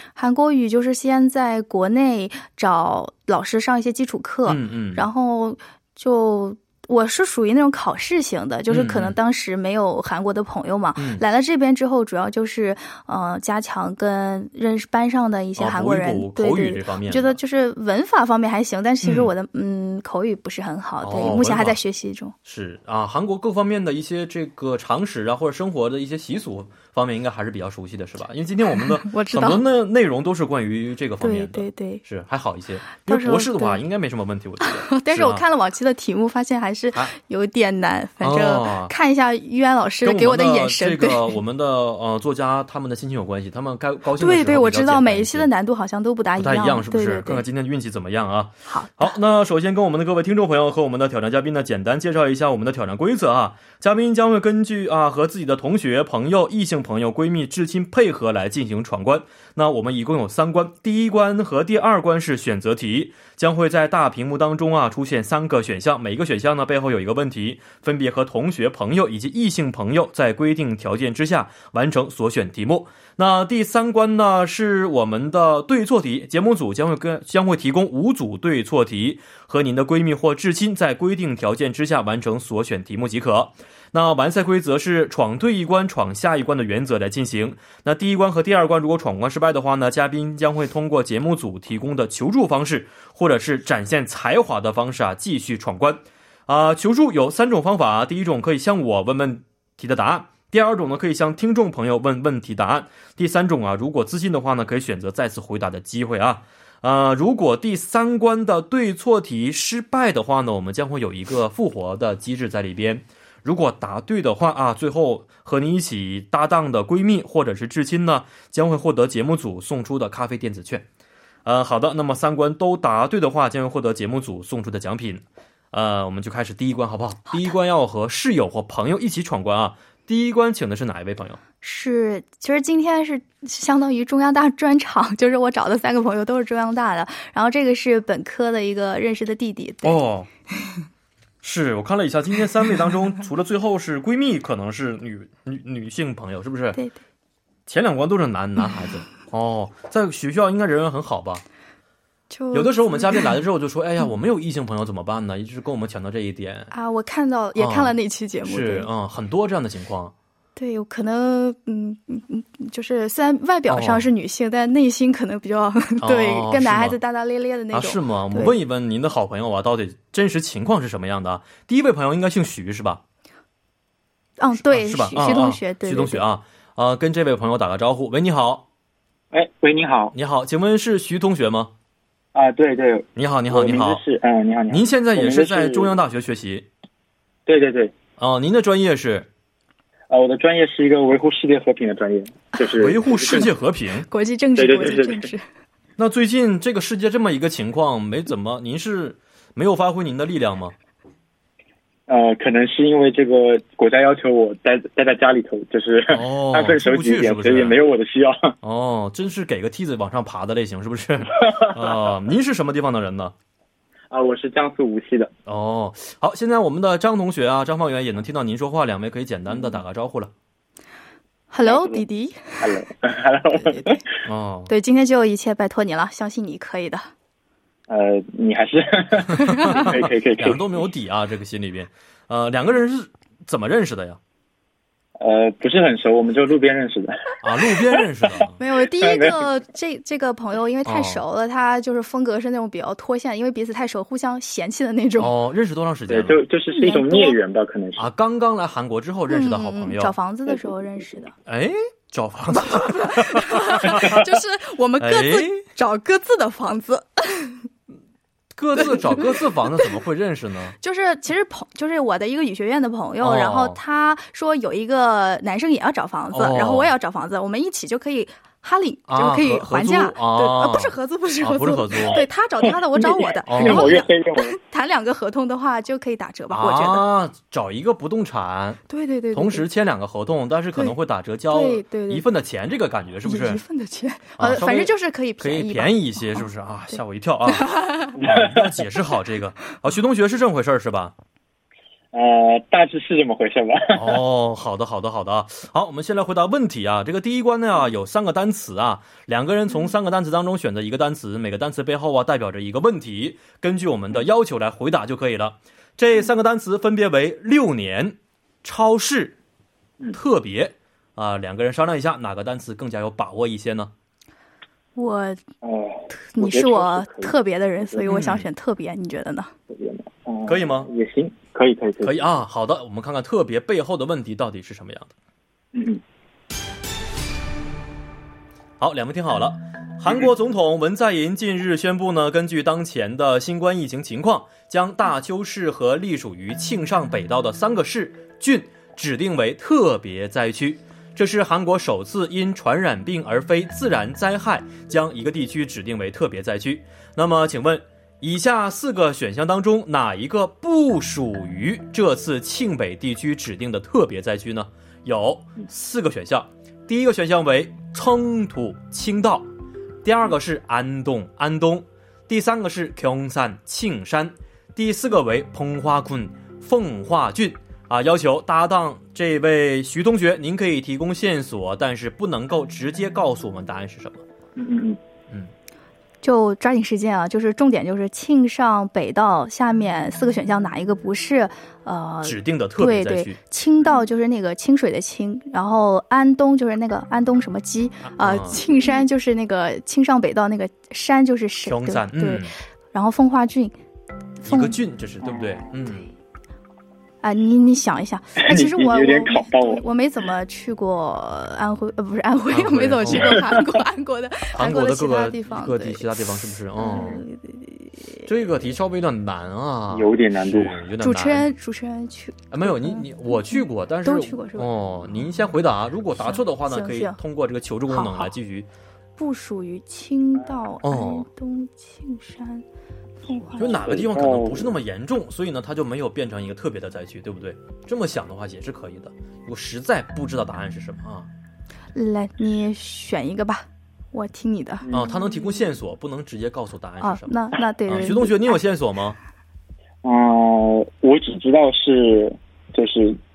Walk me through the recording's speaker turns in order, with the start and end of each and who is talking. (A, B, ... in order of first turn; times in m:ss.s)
0:00.2-0:22.3 A
0:04.5-0:05.1 B
0:08.7-0:09.1 B
0:11.0-0:11.2 B
0:15.6-0:17.4 B
0:19.0-0:19.3 B
0:21.0-0:21.8 B
0:22.4-0:35.4 B
0:29.0-0:29.6 A
0:31.2-0:32.0 A
0:33.0-0:33.8 A
0:34.6-0:41.4 A
0:38.2-0:38.9 B
0:40.0-0:45.5 B
0:44.2-0:47.4 A
0:46.4-2:00.8 B
0:48.7-0:49.1 A
2:01.4-2:11.4 B
2:11.6-2:20.0 A
2:19.8-2:20.3 B
2:21.4-2:26.8 B
2:27.7-2:31.4 B
2:32.3-2:33.3 A
2:32.5-2:36.7 B
2:36.7-2:38.9 A
2:37.6-2:40.1 B
2:40.6-2:48.6 A
2:43.7-2:44.1 B
2:46.0-2:47.0 B
2:47.7-2:53.0 B
2:54.4-2:56.2 A
2:54.6-2:58.6 B
2:59.3-3:00.1 C
3:00.1-3:01.7 B
3:02.3-3:05.9 C
3:03.2-3:04.0 B
3:04.7-3:06.7 B
3:07.4-3:07.9 C
3:08.2-3:09.3 B
3:10.1-3:13.5 C
3:12.8-3:14.1 B
3:14.1-3:15.4 A
3:14.6-3:15.3 C
3:16.0-3:20.7 B
3:22.1-3:28.5 C
3:26.1-3:27.8 B
3:28.6-3:33.3 B
3:34.1-3:35.3 C
3:35.4-3:40.3 B
3:41.5-3:42.6 A
3:41.6-3:42.0 C
3:42.6-3:44.0 C
3:43.6-3:44.0 A
3:44.2-3:44.7 B
3:44.7-3:47.1 A
3:47.9-3:50.6 C
3:49.3-3:54.2 B
3:49.3-3:49.8 A
3:55.2-3:59.5 C
3:57.4-3:58.5 B
3:58.6-4:05.3 A
4:00.8-4:01.2 B
4:05.2-4:06.4 B
4:06.1-4:08.1 C
4:06.7-4:07.4 A
4:08.0-4:10.1 B
4:09.3-4:11.3 A
4:11.4-4:14.2 B
4:12.9-4:17.6 A
4:15.0-4:15.6 B
4:18.6-4:20.7 B
4:18.7-4:19.9 A
4:20.8-4:37.1 A
4:23.2-4:23.8 B
4:26.3-4:26.9 B
4:29.1-4:32.2 B
4:32.9-4:34.5 C
4:33.5-4:34.0 B
4:36.5-4:38.8 B
4:38.9-4:39.7 A
4:39.3-4:43.6 B
4:41.5-4:42.2 A
4:43.2-4:46.4 A
4:44.4-4:51.1 B
4:47.5-4:48.1 A
4:48.2-4:48.8 C
4:52.1-4:54.2 C
4:53.9-5:09.4 B
5:10.1-5:13.9 B
5:15.0-5:15.4 A
5:15.6-5:18.1 C
5:16.3-5:19.5 A
5:18.0-5:18.5 B
5:19.7-5:22.2 C
5:20.4-5:20.9 B
5:22.0-5:25.1 B
5:25.7-5:26.0 C
5:28.8-5:59.5 B
6:00.0-6:14.2 B
6:14.6-6:15.0 C
6:16.2-6:33.8 A
6:22.2-6:23.4 B
6:28.1-6:28.6 B
6:31.6-6:32.5 B
6:34.4-6:34.8 A
6:34.4-6:36.1 B
6:35.2-6:35.6 C
6:37.2-6:46.1 A
6:38.4-6:39.8 C
6:42.5-6:43.5 B
6:44.5-6:47.2 B
6:46.8-6:48.0 A
6:48.2-6:51.5 B
6:49.9-6:50.8 C
6:51.0-6:55.2 A
6:52.5-6:58.7 B
6:56.2-6:57.2 A
6:57.9-6:58.3 A
6:59.2-7:02.6 A
7:00.8-7:01.3 B
7:03.2-7:03.8 A
7:03.6-7:11.3 B
7:03.6-7:04.7 C
7:11.9-7:14.9 A
7:14.8-7:15.2 C
7:14.9-7:17.3 B
7:17.0-7:18.6 A
7:17.8-7:19.2 B
7:20.0-7:23.2 C